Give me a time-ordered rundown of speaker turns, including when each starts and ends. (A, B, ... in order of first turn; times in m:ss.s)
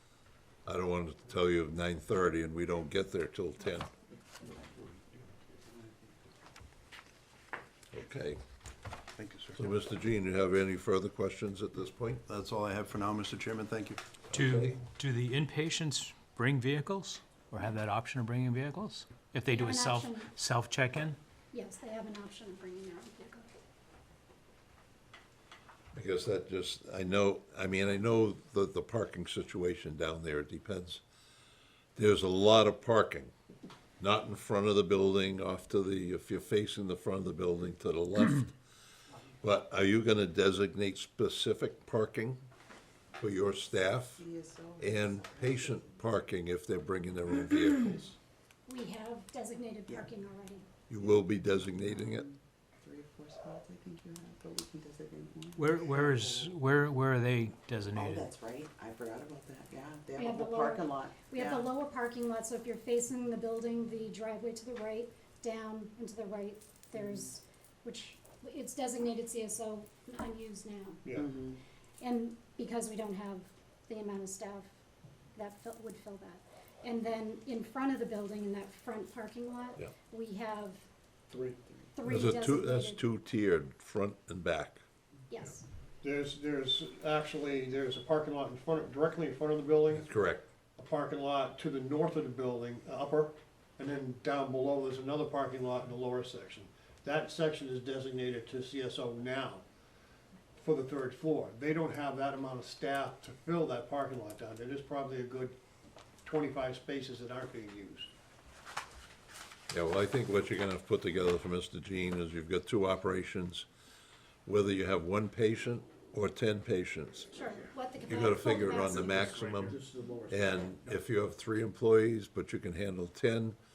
0:00.7-0:03.9 A
0:07.9-0:08.4 A
0:09.2-0:09.7 B
0:09.6-0:12.2 A
0:12.2-0:14.0 B
0:14.3-0:14.8 A
0:14.3-0:21.2 C
0:19.5-0:20.3 D
0:21.5-0:23.5 D
0:25.9-0:31.0 A
0:32.0-0:33.3 A
0:34.0-0:38.5 A
0:39.4-0:42.4 A
0:43.2-0:44.2 A
0:44.2-0:45.8 E
0:44.8-0:48.2 A
0:48.7-0:50.7 D
0:50.9-0:52.3 A
0:51.9-0:56.6 E
0:55.6-0:58.3 C
0:57.9-1:01.7 E
1:00.2-1:11.0 D
1:11.0-1:11.3 F
1:11.2-1:11.6 E
1:12.0-1:14.7 D
1:15.3-1:20.8 D
1:21.3-1:21.6 F
1:21.9-1:23.0 D
1:22.0-1:24.8 A
1:25.3-1:25.6 D
1:26.0-1:30.1 F
1:29.9-1:30.4 A
1:30.8-1:39.6 F
1:40.6-1:45.6 F
1:46.2-1:48.1 F
1:49.7-1:53.7 A
1:54.4-1:57.3 A
1:57.3-1:59.4 D
1:58.1-2:03.6 A
1:58.9-2:00.7 F